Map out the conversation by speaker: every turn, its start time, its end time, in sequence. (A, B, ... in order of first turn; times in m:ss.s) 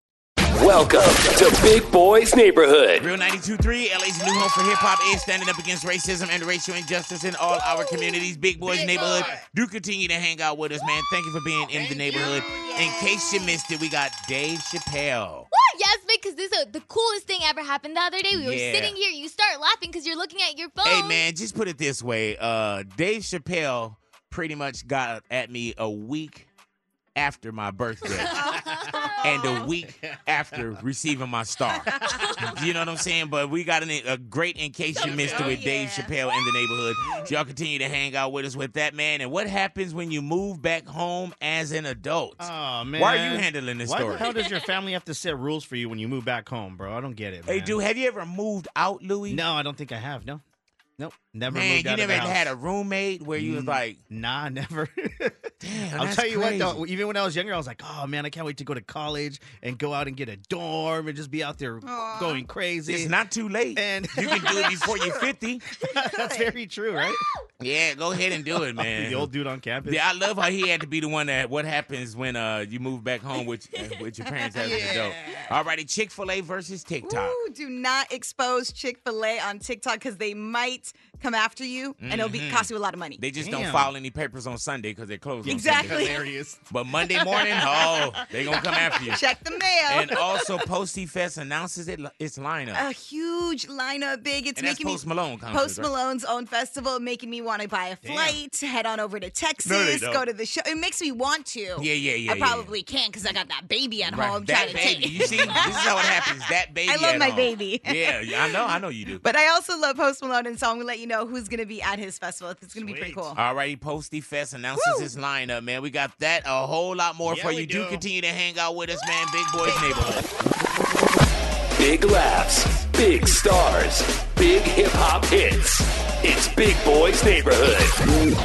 0:00.5-0:03.1 A
0:03.0-0:15.5 B
0:07.7-0:09.4 C
0:08.9-0:09.3 D
0:11.8-0:12.7 D
0:12.1-0:13.6 C
0:15.5-0:21.2 E
0:18.3-0:18.9 B
0:20.8-0:26.5 B
0:27.2-0:28.3 B
0:28.3-0:29.7 C
0:28.3-0:29.0 D
0:29.2-0:31.9 B
0:30.0-0:30.6 D
0:31.9-0:32.5 C
0:31.9-0:32.4 D
0:32.5-0:44.2 B
0:35.0-0:36.1 C
0:35.0-0:35.6 D
0:37.0-0:37.3 D
0:42.4-0:47.8 D
0:44.2-0:44.5 E
0:47.4-0:49.4 B
0:49.3-0:50.4 D
0:51.0-0:52.5 D
0:51.5-0:54.0 B
0:53.4-1:03.1 D
0:55.6-0:56.8 B
1:01.8-1:02.4 C
1:02.9-1:05.6 B
1:03.7-1:04.7 D
1:04.3-1:05.2 C
1:05.8-1:07.2 D
1:05.9-1:06.5 C
1:07.6-1:09.3 B
1:08.7-1:10.0 D
1:09.8-1:17.4 B
1:14.6-1:15.5 D
1:14.6-1:15.1 C
1:17.0-1:23.2 C
1:22.0-1:26.1 B
1:23.4-1:23.9 D
1:25.4-1:26.7 D
1:25.4-1:26.2 C
1:26.7-1:29.2 B
1:27.4-1:27.6 D
1:28.6-1:30.2 C
1:29.9-1:32.8 B
1:32.7-1:46.3 C
1:34.6-1:35.9 B
1:38.0-1:38.4 D
1:39.6-1:40.2 B
1:41.8-1:42.7 B
1:44.1-1:49.2 B
1:45.2-1:45.7 D
1:46.9-1:53.4 C
1:52.7-1:53.3 D
1:53.3-2:00.2 B
1:54.8-1:55.1 C
1:57.2-1:58.0 D
1:59.6-2:00.2 C
2:01.8-2:07.9 A